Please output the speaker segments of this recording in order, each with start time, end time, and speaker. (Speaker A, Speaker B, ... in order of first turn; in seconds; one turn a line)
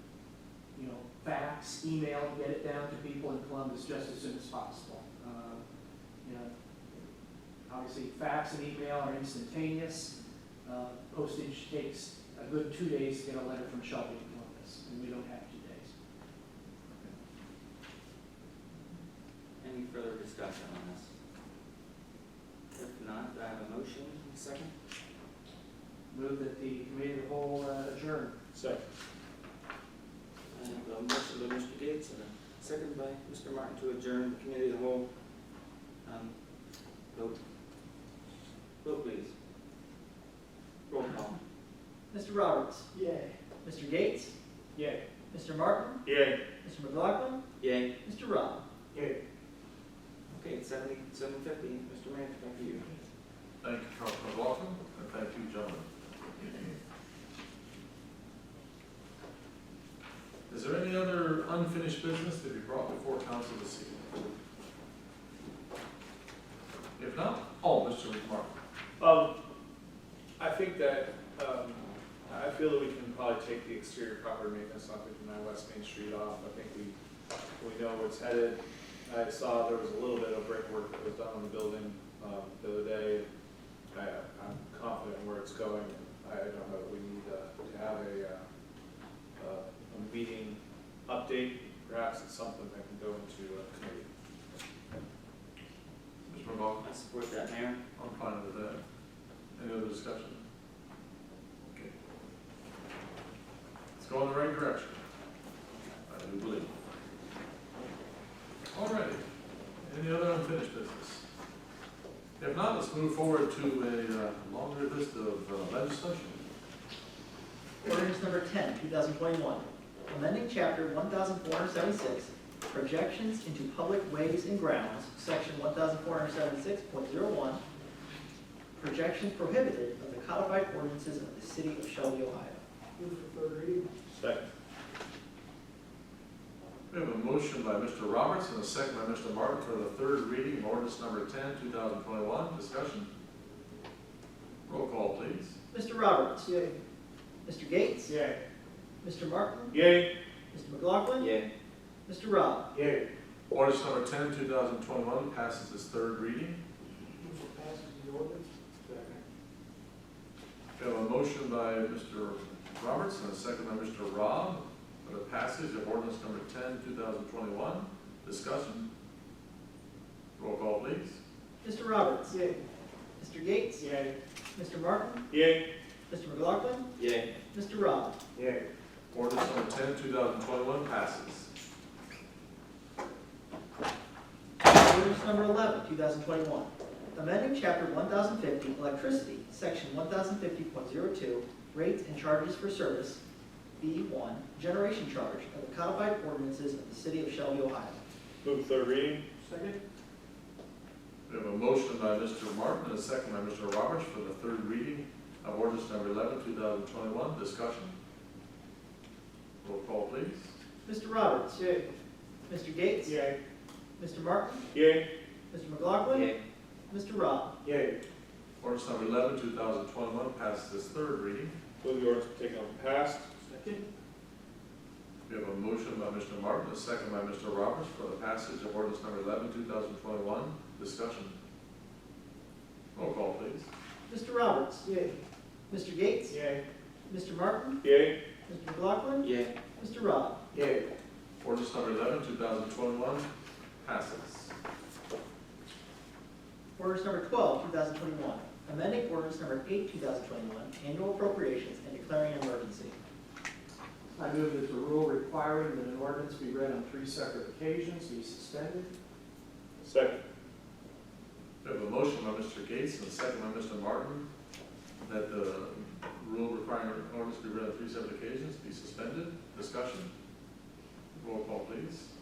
Speaker A: 0.7-5.6
Speaker A: 6.2-6.5
Speaker A: 7.6-15.9
Speaker B: 19.6-21.1
Speaker B: 22.7-24.7
Speaker A: 26.1-28.4
Speaker C: 28.5-28.8
Speaker B: 30.5-35.1
Speaker B: 36.0-36.4
Speaker B: 37.1-37.4
Speaker B: 38.8-39.3
Speaker B: 40.9-41.4
Speaker D: 42.1-42.9
Speaker D: 43.6-44.3
Speaker C: 44.8-45.0
Speaker D: 45.3-46.0
Speaker C: 46.0-46.4
Speaker D: 46.6-47.4
Speaker B: 47.6-47.9
Speaker D: 48.0-48.6
Speaker B: 50.3-53.0
Speaker E: 53.6-55.9
Speaker E: 56.4-56.6
Speaker E: 60.5-64.1
Speaker E: 67.0-68.5
Speaker C: 69.0-69.3
Speaker C: 70.4-77.0
Speaker C: 77.6-83.2
Speaker C: 83.9-88.4
Speaker C: 89.4-94.0
Speaker E: 96.3-96.8
Speaker B: 96.8-97.8
Speaker E: 98.0-98.8
Speaker E: 99.5-100.4
Speaker E: 104.0-105.0
Speaker E: 106.1-106.7
Speaker E: 108.7-109.2
Speaker E: 109.8-111.2
Speaker E: 112.4-116.4
Speaker D: 117.8-127.6
Speaker D: 128.8-132.6
Speaker A: 133.0-133.7
Speaker C: 134.1-134.5
Speaker E: 136.9-143.1
Speaker E: 144.7-145.6
Speaker D: 145.7-146.5
Speaker C: 146.5-146.7
Speaker D: 147.4-148.1
Speaker C: 148.1-148.4
Speaker D: 149.0-149.8
Speaker C: 149.7-150.1
Speaker D: 150.5-151.3
Speaker B: 151.2-151.5
Speaker D: 152.1-152.7
Speaker C: 152.7-153.1
Speaker E: 153.5-156.6
Speaker E: 160.8-168.9
Speaker E: 170.4-171.2
Speaker D: 171.6-172.4
Speaker C: 172.3-172.6
Speaker D: 173.2-173.8
Speaker C: 173.8-174.2
Speaker D: 174.5-175.2
Speaker C: 175.3-175.6
Speaker D: 176.1-176.9
Speaker B: 177.0-177.3
Speaker D: 177.5-178.2
Speaker C: 178.3-178.7
Speaker E: 179.1-181.5
Speaker D: 184.6-193.2
Speaker D: 193.8-198.0
Speaker C: 198.4-199.2
Speaker A: 199.5-199.8
Speaker E: 201.3-207.9
Speaker E: 209.6-210.5
Speaker D: 210.8-211.6
Speaker C: 211.5-211.9
Speaker D: 212.5-213.2
Speaker C: 213.0-213.3
Speaker D: 214.0-214.6
Speaker C: 214.7-215.1
Speaker D: 215.5-216.3
Speaker B: 216.1-216.4
Speaker D: 216.9-217.6
Speaker C: 217.6-218.0
Speaker E: 218.6-221.5
Speaker C: 221.8-223.7
Speaker E: 225.3-231.3
Speaker E: 232.9-233.7
Speaker D: 234.1-234.9
Speaker C: 234.8-235.1
Speaker D: 235.7-236.4
Speaker C: 236.3-236.6
Speaker D: 237.1-237.8
Speaker C: 237.8-238.2
Speaker D: 238.5-240.4
Speaker B: 239.2-239.5
Speaker C: 240.5-240.9
Speaker E: 241.4-243.2
Speaker E: 243.8-244.5
Speaker D: 246.8-252.9
Speaker A: 254.2-258.9
Speaker C: 259.8-260.2
Speaker E: 261.6-264.2
Speaker E: 265.0-270.1
Speaker E: 271.1-272.1